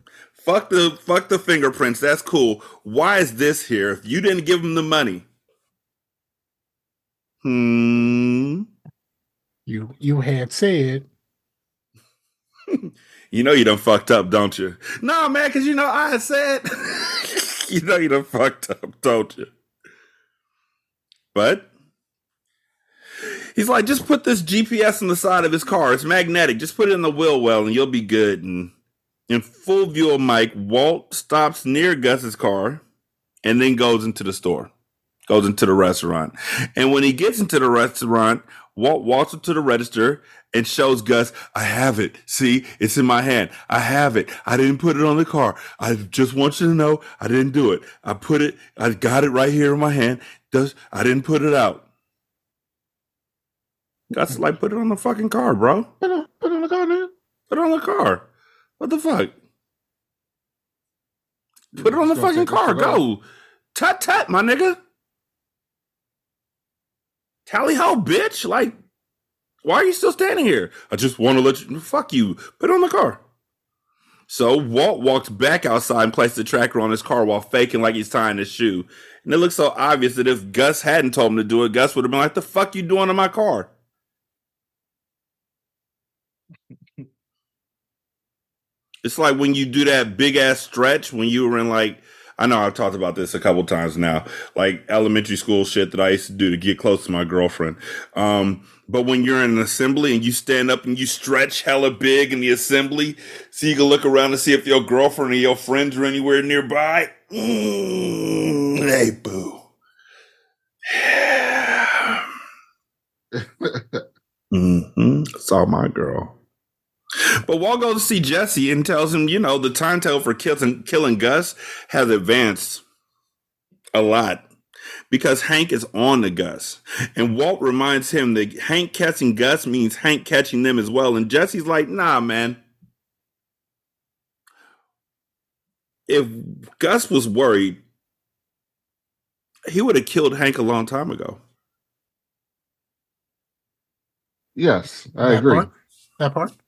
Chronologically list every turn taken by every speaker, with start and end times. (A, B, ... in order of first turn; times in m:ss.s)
0:00.4-0:05.3 A
0:07.4-0:08.7 A
0:09.7-0:11.1 B
0:12.7-0:19.5 A
0:21.3-0:21.7 A
0:23.6-0:28.7 A
0:29.3-0:32.8 A
0:33.4-0:34.7 A
0:35.3-0:51.8 A
0:54.1-0:55.9 A
0:56.0-0:57.1 B
0:57.5-0:58.2 A
0:58.8-0:59.3 A
1:01.7-1:03.2 A
1:01.8-1:03.0 C
1:03.7-1:04.8 A
1:07.5-1:08.8 A
1:09.6-1:13.2 A
1:14.3-1:23.7 A
1:29.0-1:49.6 A
1:50.9-1:52.3 A
1:53.3-1:54.0 C
1:54.5-1:56.3 A
1:57.2-2:02.8 A
2:03.9-2:04.4 A
2:05.1-2:12.6 A
2:16.1-2:17.8 A
2:19.7-2:21.4 A
2:24.6-2:25.7 C
2:25.2-2:26.5 B